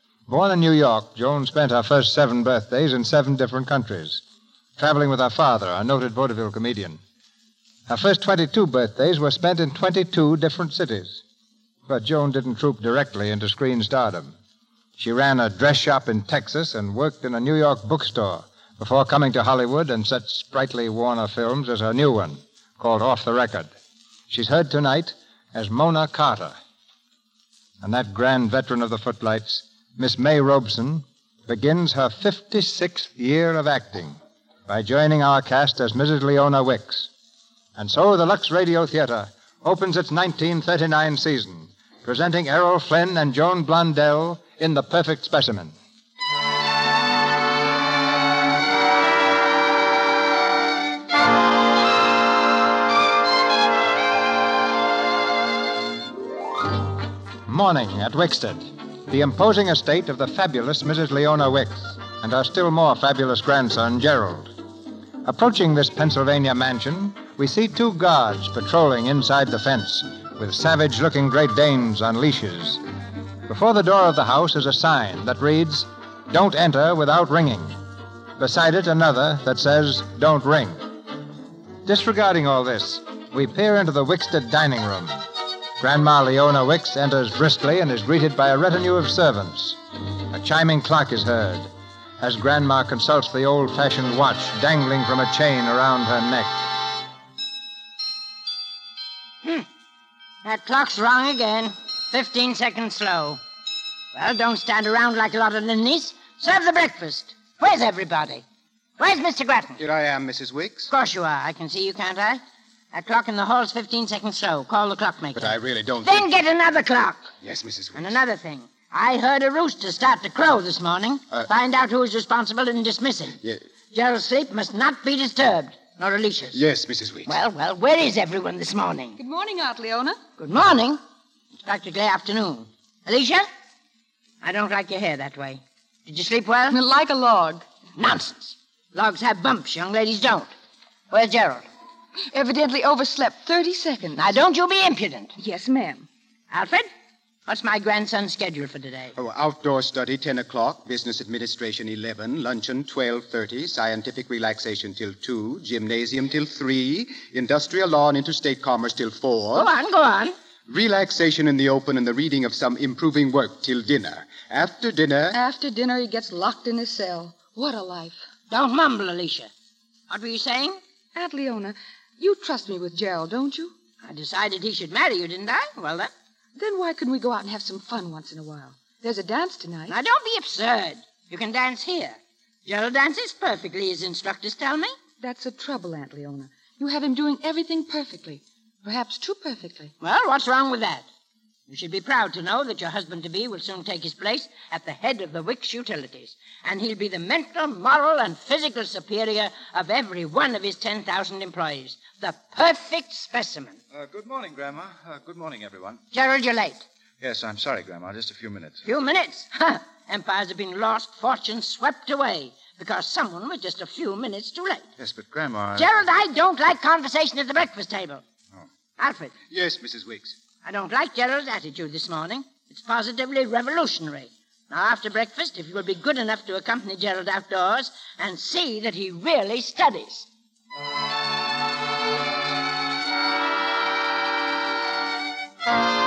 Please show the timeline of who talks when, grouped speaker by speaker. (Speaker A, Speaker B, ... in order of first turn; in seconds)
Speaker A: 0.3-4.2, 4.8-7.0, 7.9-11.2, 11.9-14.3, 15.0-23.7, 24.3-26.6, 27.8-37.1, 37.8-45.8, 57.5-64.5, 65.2-72.8, 73.5-77.8, 78.4-81.0, 81.8-85.2, 85.8-89.8, 90.3-96.7
Speaker B: 100.4-103.4, 104.1-108.4, 109.0-109.8, 110.9-112.4, 112.9-117.3, 117.9-123.4, 123.9-126.6, 127.3-129.2, 130.4-131.0, 131.6-133.5, 134.4-136.8, 138.0-140.5, 141.1-141.7, 144.2-145.3, 146.5-146.9, 147.5-149.1, 159.6-160.4, 168.5-169.5, 170.1-170.8, 174.0-176.1, 179.9-185.0, 190.0-191.1, 191.7-203.8, 206.1-206.8, 208.8-214.8, 215.8-218.2, 219.0-219.3, 220.6-230.3
Speaker C: 109.8-110.9, 115.3-116.3, 117.4-118.2, 126.5-127.3, 149.2-159.7, 160.7-165.4, 219.5-220.4
Speaker D: 129.2-130.3, 136.7-137.6, 142.3-144.3, 145.4-146.1, 165.3-168.2, 171.1-173.8, 176.6-179.9, 185.2-189.9
Speaker E: 203.9-206.0, 207.2-208.8, 215.0-215.9